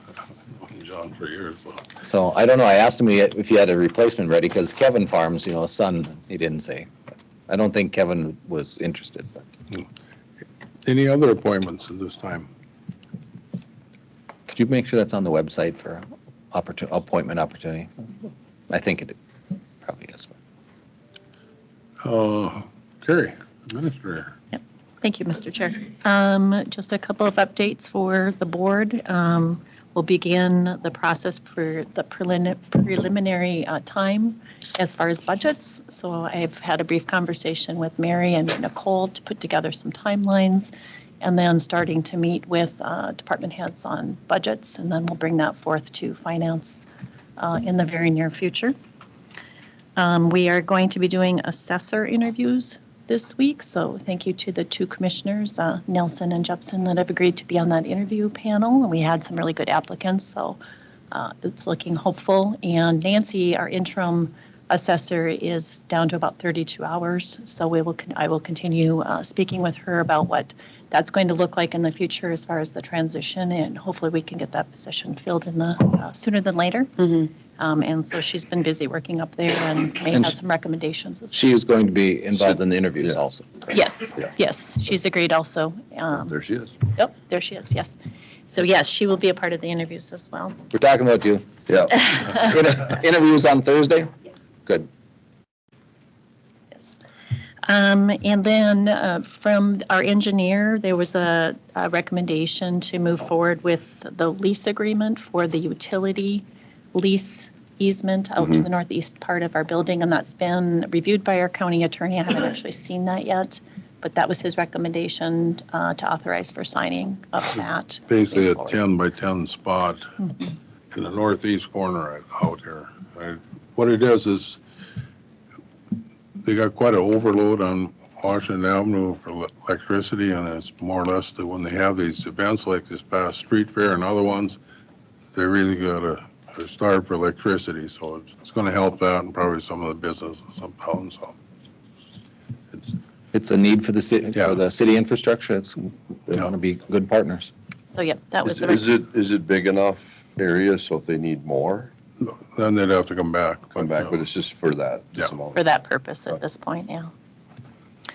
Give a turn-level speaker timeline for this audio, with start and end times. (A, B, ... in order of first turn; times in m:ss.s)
0:00.6-0:01.8 A
0:02.0-0:06.9 B
0:07.5-0:09.4 B
0:10.8-0:12.5 A
0:14.5-0:17.9 B
0:18.7-0:19.2 B
0:19.8-0:20.4 B
0:22.0-0:24.4 A
0:24.5-0:46.9 C
0:47.4-0:48.8 C
0:50.0-1:00.6 C
1:01.1-1:21.4 C
1:21.3-1:23.7 B
1:23.7-1:26.3 C
1:26.2-1:26.7 D
1:27.0-1:28.0 C
1:28.5-1:30.6 C
1:30.7-1:34.1 B
1:31.7-1:32.0 D
1:37.7-1:58.8 C
1:58.1-2:00.3 A
2:00.9-2:04.6 A
2:06.4-2:14.6 A
2:15.3-2:21.4 A
2:23.3-2:27.5 B
2:27.9-2:28.8 C
2:28.4-2:31.9 D
2:32.2-2:34.1 A
2:33.8-2:35.7 D
2:35.6-2:37.1 C